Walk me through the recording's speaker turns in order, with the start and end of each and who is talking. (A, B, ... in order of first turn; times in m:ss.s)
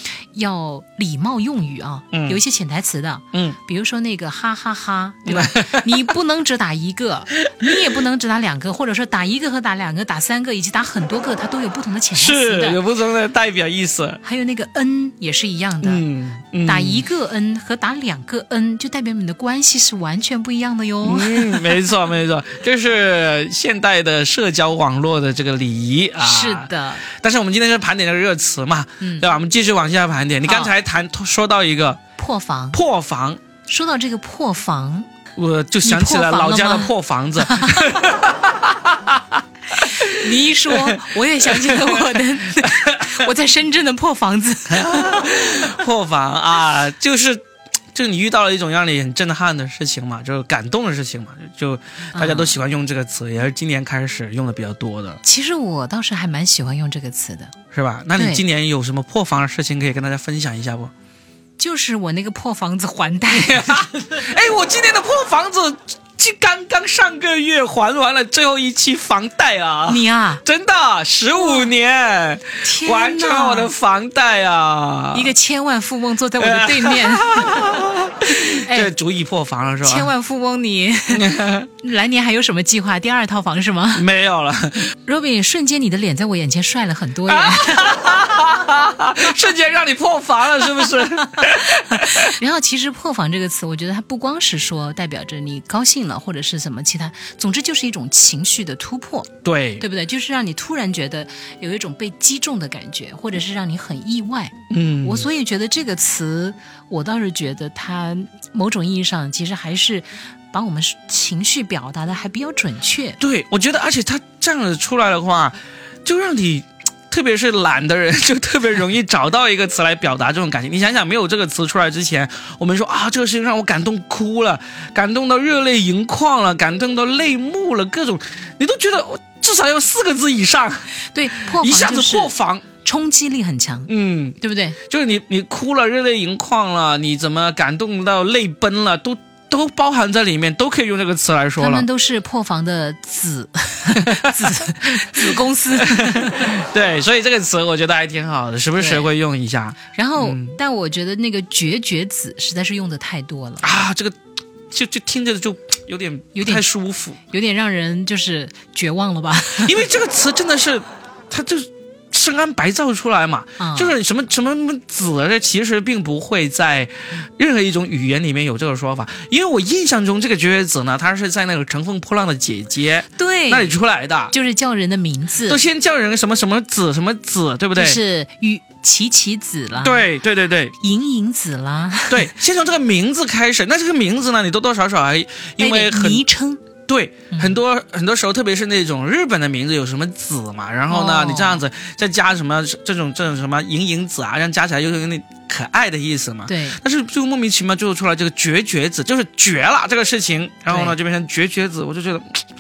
0:00.3-0:12.8 A
0:02.1-0:02.4 B
0:05.3-0:05.9 B
0:07.4-0:07.8 B
0:12.2-0:14.2 B
0:14.2-0:16.0 A
0:15.8-0:17.0 B
0:16.6-0:21.8 A
0:21.0-0:32.0 B
0:26.2-0:27.0 A
0:29.0-0:29.3 A
0:30.4-0:30.7 A
0:32.2-0:32.8 A
0:32.7-0:33.4 B
0:33.7-0:35.1 A
0:35.4-0:43.3 B
0:35.8-0:38.0 A
0:39.8-0:45.6 A
0:44.7-0:55.2 B
0:52.2-0:52.6 A
0:55.2-0:57.6 A
0:57.7-1:00.9 B
0:58.2-0:58.4 A
1:01.6-1:03.9 A
1:03.3-1:15.3 B
1:09.9-1:10.4 A
1:11.4-1:11.7 A
1:12.6-1:13.7 A
1:15.1-1:17.9 A
1:16.4-1:20.1 B
1:18.5-1:18.9 A
1:19.8-1:24.1 A
1:21.1-1:21.7 B
1:23.9-1:24.9 B
1:25.1-1:28.0 A
1:27.3-1:32.4 B
1:31.6-1:53.2 A
1:39.4-1:39.8 B
1:44.7-1:45.3 B
1:53.2-2:12.6 B
2:11.1-2:14.8 A
2:13.9-2:21.9 B
2:21.6-2:26.6 A
2:24.0-2:30.6 B
2:28.8-2:29.1 A
2:29.9-2:33.7 A
2:33.6-2:34.2 B
2:34.7-2:37.2 B
2:36.4-2:36.6 A
2:37.3-2:39.8 A
2:39.6-2:54.3 B
2:43.6-2:43.9 A
2:53.2-2:53.8 A
2:54.3-2:55.6 A
2:55.5-2:58.0 B
2:57.8-3:00.0 A
2:59.8-3:00.8 B
3:00.8-3:02.3 A
3:02.1-3:06.2 B
3:05.6-3:06.6 A
3:06.9-3:22.4 B
3:07.3-3:07.6 A
3:10.9-3:11.6 A
3:16.5-3:16.8 A
3:20.7-3:21.0 A